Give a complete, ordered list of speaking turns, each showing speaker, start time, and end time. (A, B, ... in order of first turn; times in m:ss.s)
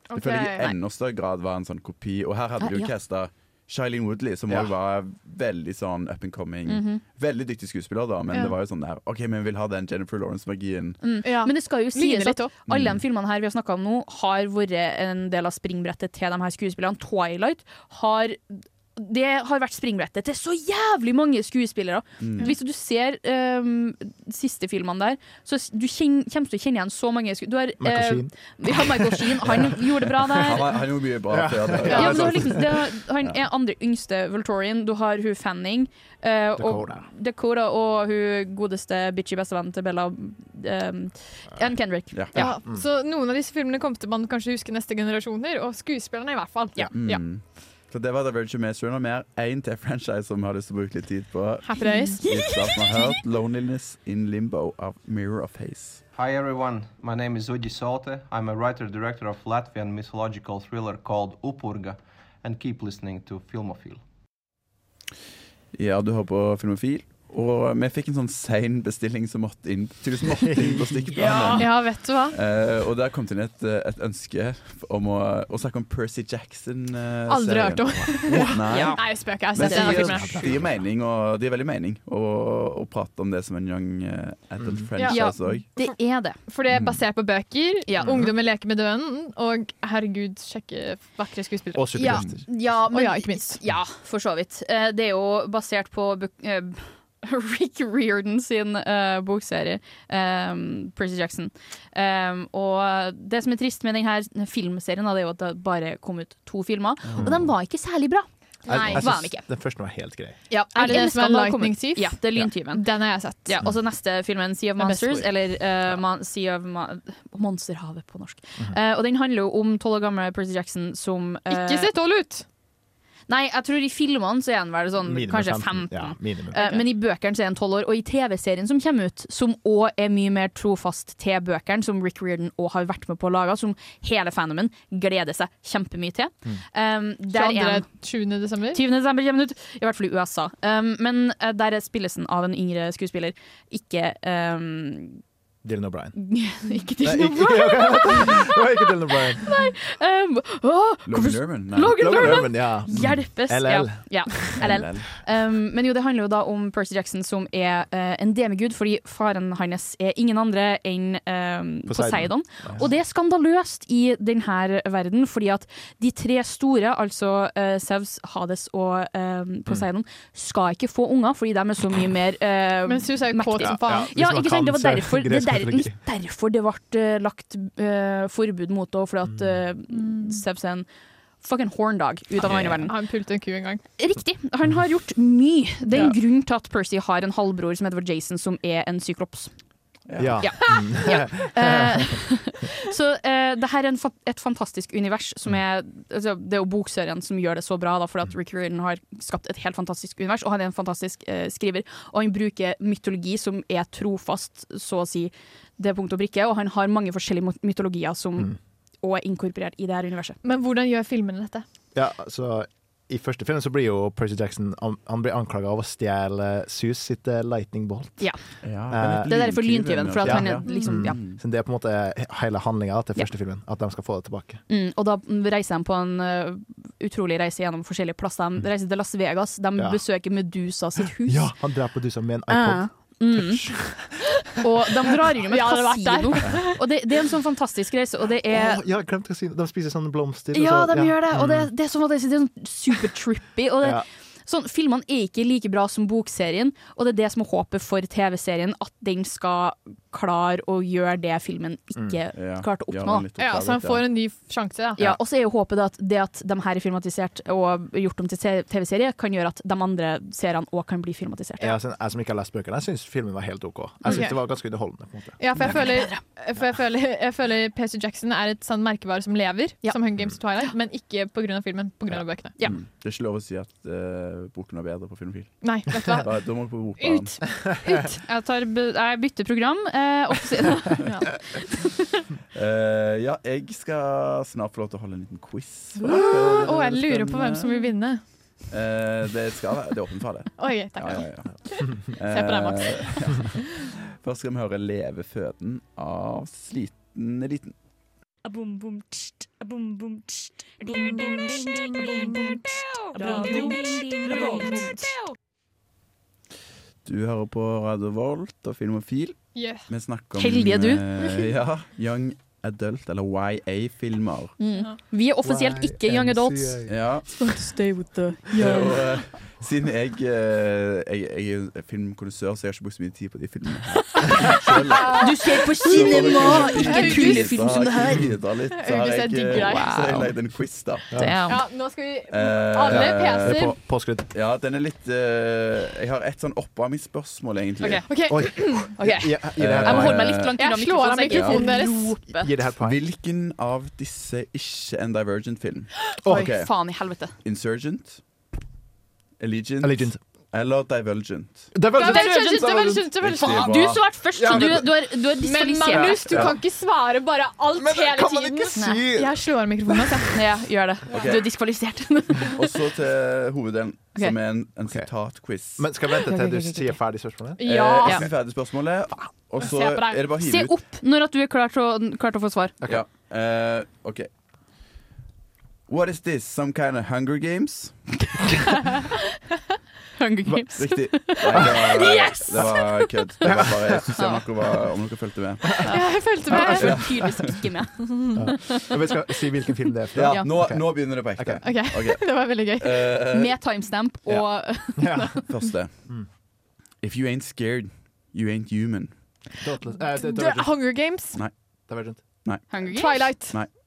0:00.1-0:00.7 A
0:00.1-0:11.2 B
0:02.6-0:02.9 C
0:06.7-0:07.0 C
0:11.0-0:30.7 C
0:11.2-0:12.6 A
0:12.7-0:13.0 B
0:22.2-0:22.5 B
0:27.8-0:29.8 D
0:30.4-0:32.6 B
0:31.3-0:32.7 D
0:31.9-0:32.2 A
0:31.9-0:42.4 C
0:36.6-0:37.1 D
0:42.1-0:42.4 B
0:42.4-0:42.9 D
0:42.4-0:47.2 A
0:46.9-0:56.0 B
0:51.7-0:52.6 A
0:51.8-0:52.8 C
0:56.1-1:04.0 E
1:05.7-1:25.7 B
1:10.5-1:11.1 D
1:11.2-1:11.6 C
1:11.6-1:12.4 A
1:17.3-1:20.4 A
1:18.7-1:20.2 C
1:19.8-1:20.8 D
1:24.6-1:24.9 D
1:25.0-1:26.0 A
1:25.1-1:26.4 C
1:26.5-1:32.2 A
1:27.9-1:28.2 C
1:31.7-1:32.4 D
1:32.0-1:49.4 C
1:32.1-1:32.4 B
1:32.9-1:33.6 A
1:47.1-1:47.5 B
1:47.2-1:47.5 D
1:48.7-1:50.4 D
1:48.7-1:49.0 A
1:50.5-1:52.9 C
1:50.8-1:52.2 A
1:52.7-1:53.5 A
1:53.5-2:01.9 C
1:54.8-1:55.3 A
2:01.5-2:02.4 A
2:03.3-2:17.9 C
2:05.0-2:06.6 D
2:06.6-2:06.8 A
2:17.3-2:18.8 A
2:18.7-2:25.2 C
2:25.6-2:26.1 D
2:26.2-3:00.9 C
2:27.0-2:29.5 D
2:31.1-2:33.2 B
2:31.9-2:34.6 D
2:34.6-2:35.2 B
2:41.9-2:42.8 D
2:52.9-2:54.1 A
2:53.6-2:56.0 D
2:59.3-2:59.6 D
2:59.9-3:00.4 A
3:01.4-3:03.0 C
3:02.5-3:02.8 B
3:02.8-3:03.8 A
3:04.0-3:09.5 C
3:10.1-3:10.5 B
3:10.2-3:12.1 D
3:10.4-3:30.4 C
3:30.4-3:31.6 A
3:31.9-3:38.3 D
3:38.6-3:41.4 B
3:38.9-3:39.4 D
3:39.2-3:41.2 C
3:40.2-3:44.6 D
3:44.7-3:51.5 C
3:49.8-3:50.0 D
3:51.2-3:54.1 D
3:52.5-3:53.8 C
3:54.6-3:58.8 C
3:55.5-3:56.8 A
3:58.5-4:01.7 D
4:00.5-4:13.3 C
4:12.4-4:14.1 B
4:13.4-4:15.1 A
4:15.0-4:21.8 C
4:21.6-4:25.8 D
4:24.1-4:24.4 A
4:25.4-4:32.6 A
4:25.6-4:26.2 C
4:29.8-4:30.7 C
4:32.6-4:37.4 B
4:35.6-4:36.3 A
4:37.0-4:38.2 A
4:38.0-4:42.0 C
4:42.5-4:47.8 B
4:46.1-4:48.2 A
4:48.7-4:57.8 B
4:50.6-4:53.6 A
4:58.5-5:00.2 C
5:00.8-5:05.2 C
5:07.0-5:14.6 B
5:09.6-5:09.9 A
5:10.4-5:11.3 C
5:14.6-5:19.1 C
5:15.4-5:17.0 D
5:16.9-5:17.3 B
5:18.6-5:31.3 B
5:25.0-5:25.3 A
5:25.0-5:28.3 C
5:26.1-5:27.6 A
5:28.7-5:30.3 A
5:29.5-5:30.3 C
5:31.1-5:31.4 D
5:31.1-5:31.6 C
5:31.5-5:33.8 A
5:32.3-5:38.3 B
5:32.9-5:34.3 D
5:37.8-5:42.6 C
5:38.1-5:38.9 A
5:38.3-5:40.4 D
5:39.6-5:40.6 B
5:40.6-5:42.2 A
5:41.2-5:41.8 B
5:42.3-5:43.0 D
5:42.8-5:48.2 B
5:46.1-5:47.4 C
5:46.2-5:46.5 D
5:49.4-5:51.8 B
5:49.8-5:50.2 D
5:51.7-5:55.2 D
5:52.0-5:53.7 A
5:52.0-5:56.5 C
5:53.2-5:54.6 B
5:55.4-6:00.4 A
5:55.9-5:56.6 D
5:57.8-6:00.2 D
5:58.8-5:59.1 C
6:00.3-6:02.8 C
6:01.1-6:01.8 B
6:02.5-6:05.9 B
6:05.8-6:08.3 D
6:06.2-6:07.0 C
6:07.6-6:08.2 A
6:07.6-6:10.8 B
6:09.6-6:10.2 A
6:09.9-6:12.8 C
6:12.8-6:14.3 B
6:15.9-6:18.0 B
6:18.4-6:19.1 C
6:20.2-6:23.6 C
6:20.5-6:22.4 D
6:20.7-6:27.7 B
6:23.4-6:24.1 D
6:24.2-6:24.5 C
6:25.8-6:29.0 C
6:25.9-6:27.0 A
6:26.5-6:27.4 D
6:28.4-6:31.6 D
6:30.1-6:33.8 B
6:30.3-6:30.6 C
6:31.6-6:33.2 A
6:33.3-6:35.5 C
6:34.3-6:35.4 D
6:35.5-6:36.2 B
6:37.0-6:39.4 B
6:39.6-6:40.7 D
6:40.1-6:41.4 A
6:41.9-6:42.2 D
6:42.4-6:42.8 B
6:42.7-6:43.4 C
6:42.9-6:43.6 A
6:43.3-6:43.7 B